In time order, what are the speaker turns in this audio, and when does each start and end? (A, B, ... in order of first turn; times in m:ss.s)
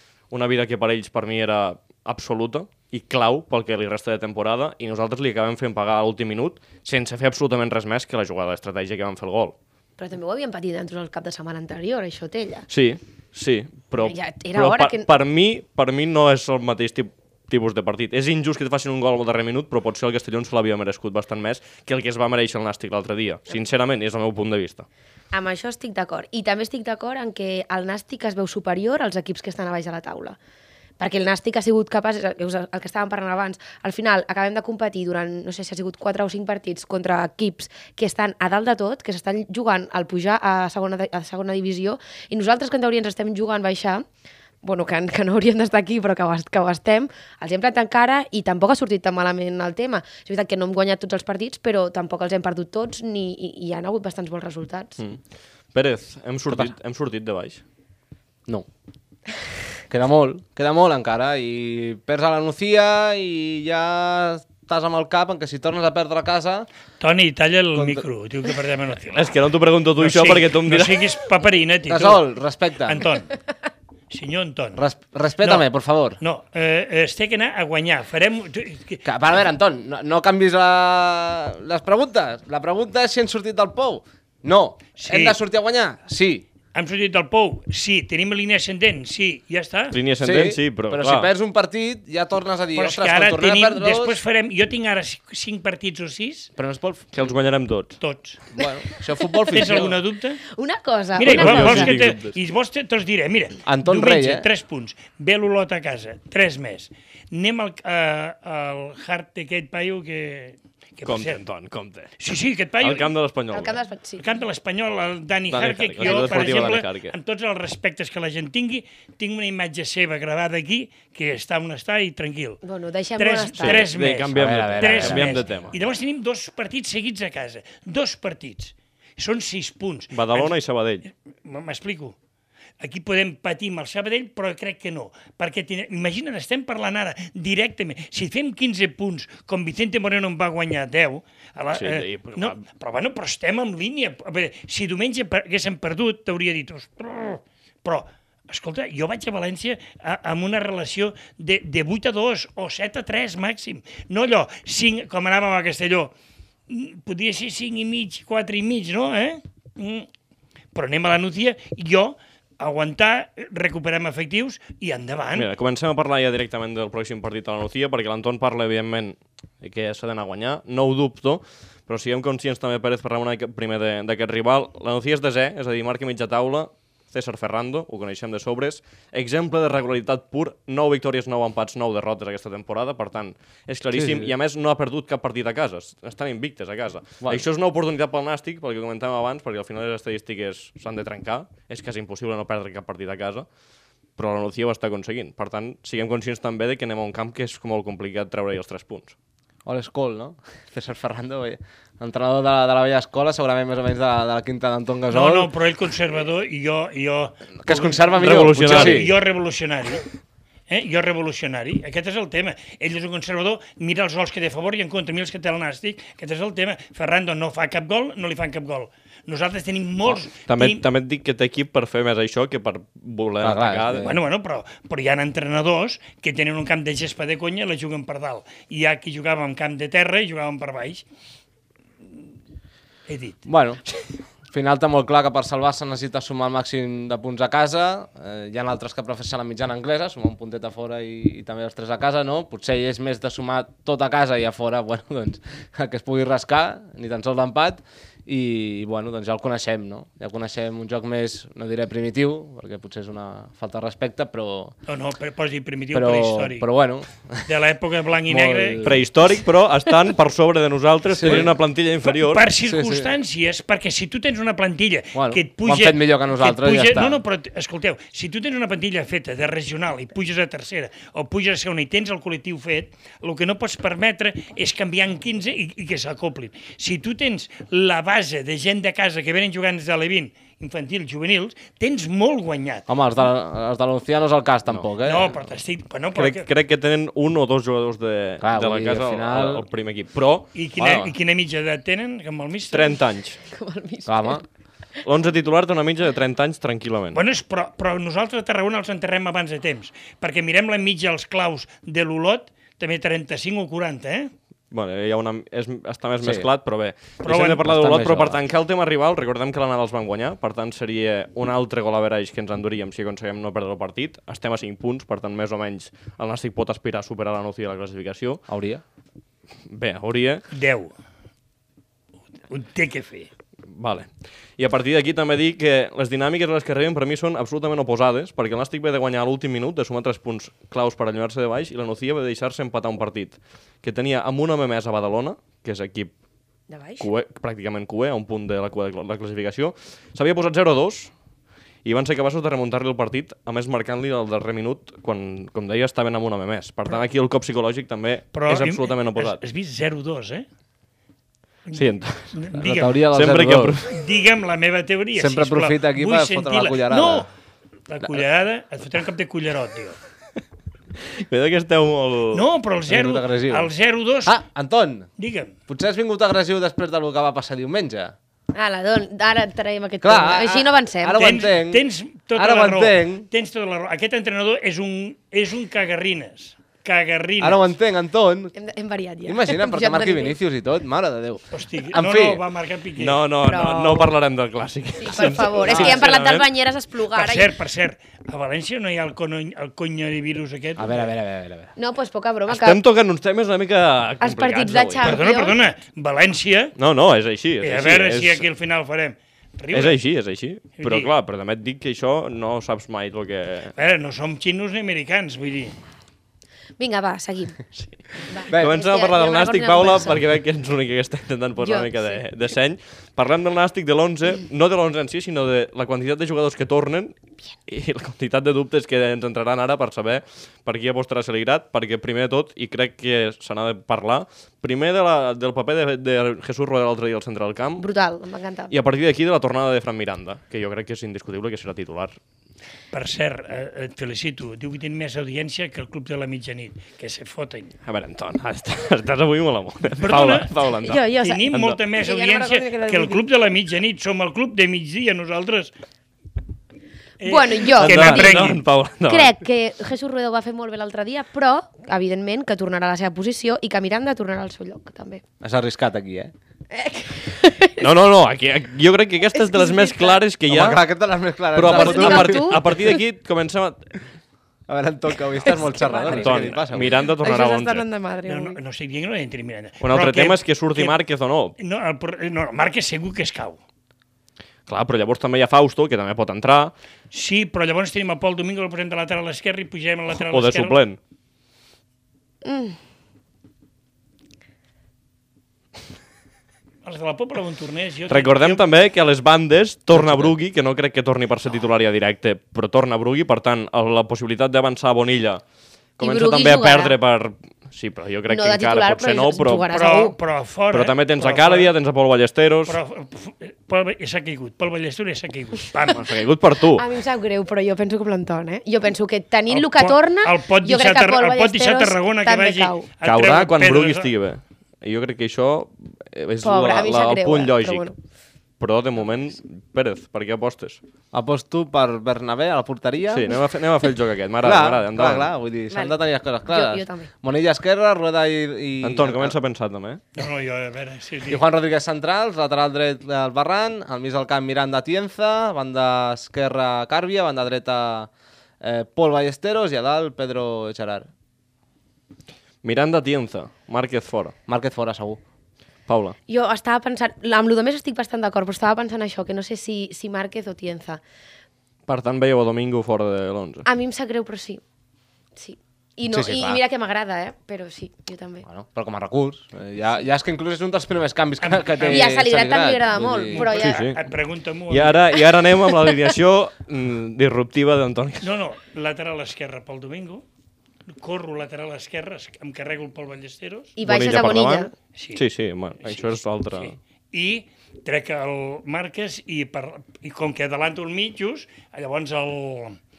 0:00.3-0:09.6 A
0:10.0-0:12.7 B
0:12.7-0:24.9 A
0:14.0-0:15.1 B
0:25.3-0:30.4 B
0:31.0-0:44.0 B
0:44.6-0:55.0 B
0:55.7-0:57.6 A
0:59.9-1:06.7 C
1:07.0-1:09.4 D
1:07.8-1:08.0 C
1:09.1-1:11.0 A
1:10.0-1:12.2 D
1:11.9-1:13.1 C
1:12.8-1:13.4 D
1:14.1-1:14.8 D
1:14.8-1:16.2 C
1:15.4-1:15.7 D
1:16.2-1:19.0 D
1:19.0-1:26.5 C
1:25.0-1:25.4 D
1:26.7-1:30.0 D
1:29.9-1:31.3 A
1:30.2-1:34.2 C
1:32.8-1:36.5 D
1:36.6-1:37.3 C
1:37.1-1:38.0 A
1:38.0-1:38.4 D
1:38.6-1:40.0 C
1:38.6-1:39.9 B
1:39.5-1:40.4 D
1:40.5-1:42.0 B
1:41.2-1:51.4 D
1:41.3-1:42.4 A
1:41.4-1:41.9 C
1:43.6-1:44.5 C
1:51.0-1:52.1 A
1:52.2-1:53.1 D
1:52.8-1:53.8 A
1:53.5-1:54.2 B
1:54.2-2:02.6 D
1:55.5-1:57.2 A
1:56.0-1:56.4 B
2:02.6-2:03.9 B
2:03.2-2:10.6 D
2:03.6-2:05.8 A
2:04.4-2:05.4 C
2:10.1-2:11.1 A
2:11.4-2:12.2 D
2:12.8-2:36.1 D
2:21.7-2:22.6 A
2:36.7-2:40.1 D
2:40.7-2:45.5 D
2:45.4-3:13.5 A
3:03.9-3:04.3 C
3:14.2-3:19.2 A
3:19.7-3:25.5 C
3:25.1-3:30.1 D
3:27.6-3:29.2 C
3:28.2-3:29.1 A
3:30.7-3:40.8 D
3:40.4-3:44.1 A
3:43.4-3:44.2 C
3:44.0-3:51.0 D
3:53.1-3:53.4 D
3:53.5-3:53.8 C
3:54.5-4:14.8 C
4:14.9-4:16.7 D
4:15.9-4:17.5 C
4:17.5-4:19.0 D
4:18.3-4:19.0 C
4:18.8-4:22.5 A
4:21.2-4:21.5 C
4:21.2-4:21.5 D
4:22.0-4:42.9 D
4:22.6-4:23.1 C
4:25.1-4:27.2 C
4:42.9-4:45.3 C
4:45.0-4:46.5 D
4:46.2-4:50.5 A
4:48.4-4:49.6 C
4:50.5-4:53.0 D
4:50.8-4:51.1 C
4:52.7-4:53.4 A
4:53.4-4:54.4 B
4:54.0-4:54.4 C
4:55.0-4:57.2 A
4:57.1-5:04.3 D
5:04.7-5:18.4 A
5:06.2-5:06.5 C
5:07.2-5:07.7 D
5:07.6-5:08.4 C
5:18.5-5:18.8 C
5:19.7-5:20.4 A
5:20.5-5:20.9 D
5:22.5-5:23.3 D
5:23.7-5:36.1 A
5:36.7-5:37.1 B
5:37.0-5:41.1 A
5:41.8-5:49.4 A
5:48.3-5:50.5 D
5:51.7-5:53.0 D
5:51.7-5:52.4 A
5:52.5-5:53.8 C
5:53.1-5:54.0 A
5:53.9-5:57.3 D
5:55.2-5:57.3 C
5:57.9-6:00.0 D
6:01.0-6:02.5 A
6:02.3-6:04.4 D
6:02.9-6:03.7 C
6:04.2-6:05.1 C
6:05.2-6:05.6 D
6:05.7-6:08.2 C
6:08.5-6:11.2 B
6:10.0-6:13.3 C
6:11.2-6:17.8 D
6:17.4-6:18.5 C
6:18.6-6:20.4 B
6:19.2-6:22.4 C
6:21.5-6:23.2 D
6:23.0-6:26.5 A
6:23.4-6:24.1 B
6:25.0-6:27.5 B
6:25.6-6:26.1 D
6:27.1-6:31.1 D
6:30.8-6:31.7 C
6:31.8-6:32.8 B
6:32.5-6:35.2 A
6:34.2-6:35.6 B
6:35.0-6:36.8 D
6:36.8-6:38.5 A
6:37.6-6:40.0 D
6:39.7-6:43.7 A
6:40.8-6:41.1 D
6:43.8-6:45.8 D
6:46.8-6:47.7 B
6:48.2-6:50.2 B
6:48.5-6:57.2 A
6:51.6-6:52.2 B
6:57.7-7:07.9 A
7:07.8-7:08.7 B
7:08.7-7:12.2 A
7:12.9-7:17.7 D
7:17.8-7:21.8 A
7:20.0-7:20.7 D
7:20.8-7:23.2 B
7:21.2-7:25.7 D
7:27.2-7:28.6 D
7:27.2-7:35.2 B
7:27.8-7:29.4 A
7:35.4-7:36.3 C
7:36.7-7:37.8 B
7:37.8-7:40.8 A
7:39.4-7:40.2 B
7:40.5-7:42.6 C
7:41.5-7:43.9 A
7:41.6-7:43.0 B
7:44.7-7:47.0 C
7:45.4-7:46.5 B
7:46.1-7:47.8 A
7:47.2-7:48.6 B
7:48.3-7:51.0 D
7:49.8-7:51.6 A
7:51.6-7:53.6 D
7:54.7-7:56.7 A
7:57.1-8:00.8 D
8:00.2-8:01.0 A
8:02.4-8:02.8 B
8:06.8-8:08.7 D
8:08.1-8:15.4 A
8:16.0-8:19.7 A
8:16.0-8:17.0 B
8:18.3-8:20.2 B
8:19.7-8:21.7 D
8:20.7-8:22.8 A
8:22.7-8:26.0 D
8:25.9-8:26.8 A
8:26.7-8:32.9 B
8:29.5-8:34.1 D
8:33.0-8:37.9 A
8:36.4-8:38.0 B
8:38.6-8:40.8 A
8:41.1-8:43.4 C
8:43.1-8:45.3 A
8:44.4-8:49.4 C
8:45.7-8:47.1 B
8:48.8-8:50.0 A
8:50.2-8:51.4 D
8:51.3-8:58.1 C
8:58.6-9:01.1 C
9:02.6-9:04.4 A
9:04.5-9:05.2 C
9:05.9-9:06.2 A
9:06.3-9:11.0 B
9:11.9-9:13.7 A
9:13.7-9:14.6 B
9:15.4-9:18.5 B
9:16.1-9:16.6 C
9:18.4-9:23.5 C
9:21.4-9:22.2 D
9:21.9-9:23.9 B
9:23.3-9:25.0 D
9:23.6-9:24.0 A
9:24.7-9:28.3 A
9:28.2-9:30.2 D
9:30.9-9:33.7 D
9:33.8-9:34.7 B
9:33.8-9:36.8 A
9:35.0-9:35.2 D
9:35.8-9:42.8 D